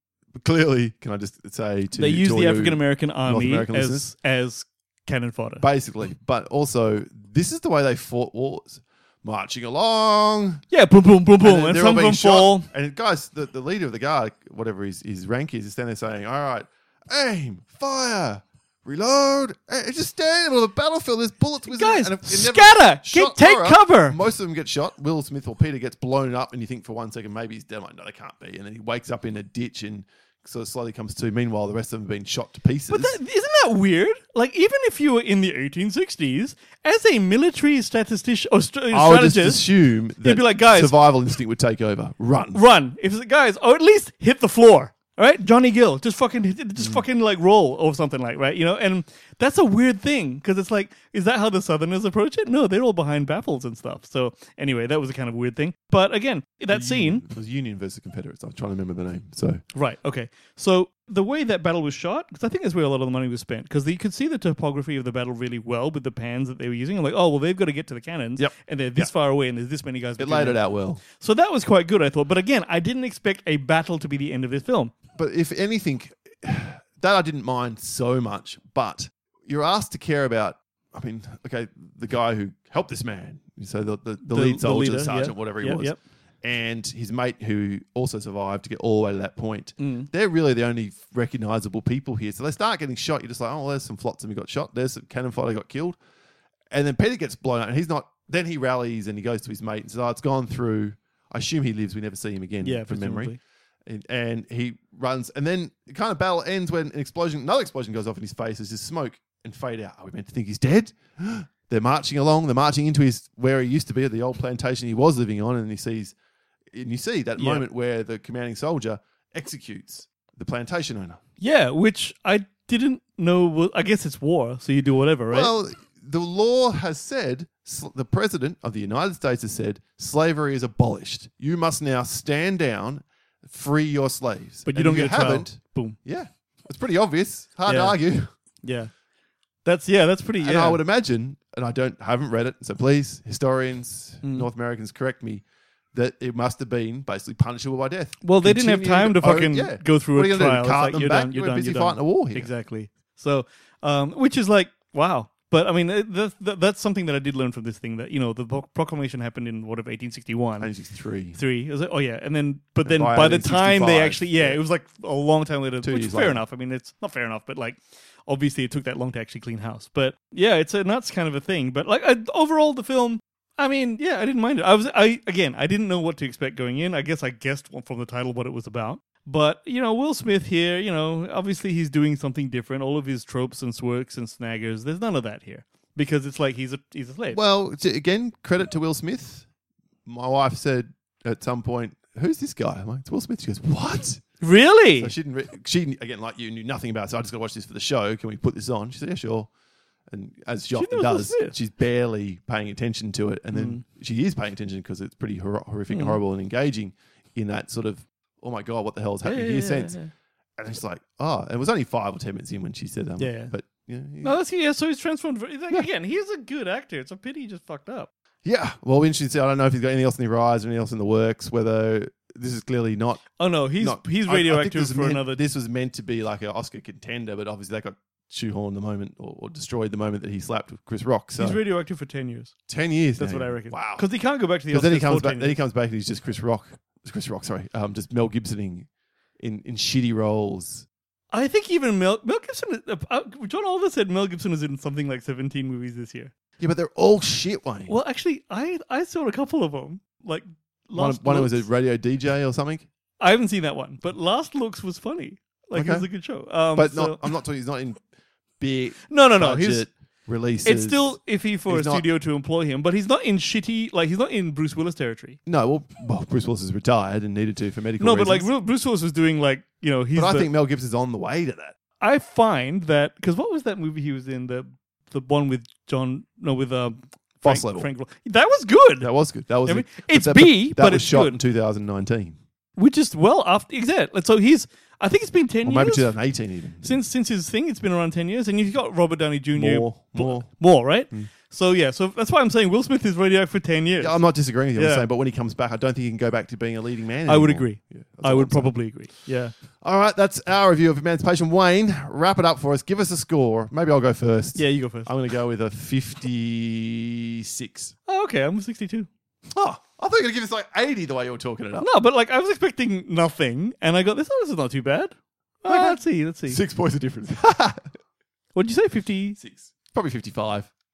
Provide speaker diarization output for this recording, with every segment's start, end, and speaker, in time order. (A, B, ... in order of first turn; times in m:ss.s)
0:00.3-0:04.1 A
0:01.9-0:05.6 B
0:05.6-0:10.6 A
0:10.7-0:12.7 B
0:11.4-0:33.2 A
0:21.7-0:24.2 B
0:32.9-0:39.7 B
0:38.9-0:42.6 A
0:40.2-0:40.9 B
0:42.5-0:57.3 B
0:56.7-0:59.6 A
0:59.7-1:14.9 B
1:08.4-1:09.1 A
1:10.2-1:11.0 A
1:15.2-1:36.0 A
1:24.3-1:26.0 B
1:29.8-1:30.1 B
1:36.7-1:43.3 A
1:42.6-1:43.4 B
1:43.8-1:56.1 A
1:56.7-2:01.2 A
1:57.4-1:57.6 B
2:01.4-2:05.5 B
2:05.3-2:18.3 A
2:14.6-2:16.0 B
2:17.6-2:18.0 B
2:18.6-2:18.9 B
2:19.6-2:20.8 B
2:20.4-2:32.5 A
2:24.2-2:24.5 B
2:28.2-2:40.7 B
2:40.6-2:41.4 A
2:41.3-3:07.4 B
2:42.8-2:44.6 A
2:45.8-2:46.4 A
3:07.3-3:09.4 A
3:10.0-3:14.2 A
3:14.4-3:15.1 B
3:15.0-3:19.5 A
3:20.1-3:30.0 A
3:20.7-3:21.5 B
3:23.5-3:23.8 B
3:25.9-3:26.2 B
3:29.2-3:30.1 B
3:30.6-3:34.3 A
3:33.2-3:33.5 B
3:34.2-3:38.1 B
3:38.4-3:51.6 A
3:43.4-3:45.4 B
3:51.4-3:52.5 B
3:52.7-3:54.1 A
3:53.2-3:55.6 B
3:54.7-3:58.9 A
3:59.4-4:00.8 A
4:01.3-4:06.3 B
4:06.6-4:07.9 A
4:07.9-4:11.7 B
4:11.0-4:12.8 A
4:13.2-4:17.3 B
4:15.7-4:16.1 A
4:16.7-4:18.0 A
4:18.6-4:22.0 A
4:19.1-4:19.8 B
4:20.6-4:25.4 B
4:25.4-4:28.5 A
4:28.0-4:30.5 B
4:30.1-4:31.7 A
4:32.0-4:39.1 B
4:37.4-4:37.9 A
4:39.0-4:42.4 A
4:39.6-4:41.4 B
4:42.8-4:46.1 B
4:45.6-4:47.0 A
4:46.8-4:54.2 B
4:49.5-4:50.5 A
4:54.0-4:58.7 A
4:54.7-4:55.1 B
4:57.3-4:59.5 B
4:59.8-5:07.9 A
5:04.6-5:05.1 B
5:08.1-5:09.1 B
5:09.5-5:11.9 A
5:11.8-5:16.6 B
5:15.7-5:18.0 A
5:18.5-5:19.4 B
5:19.4-5:20.7 A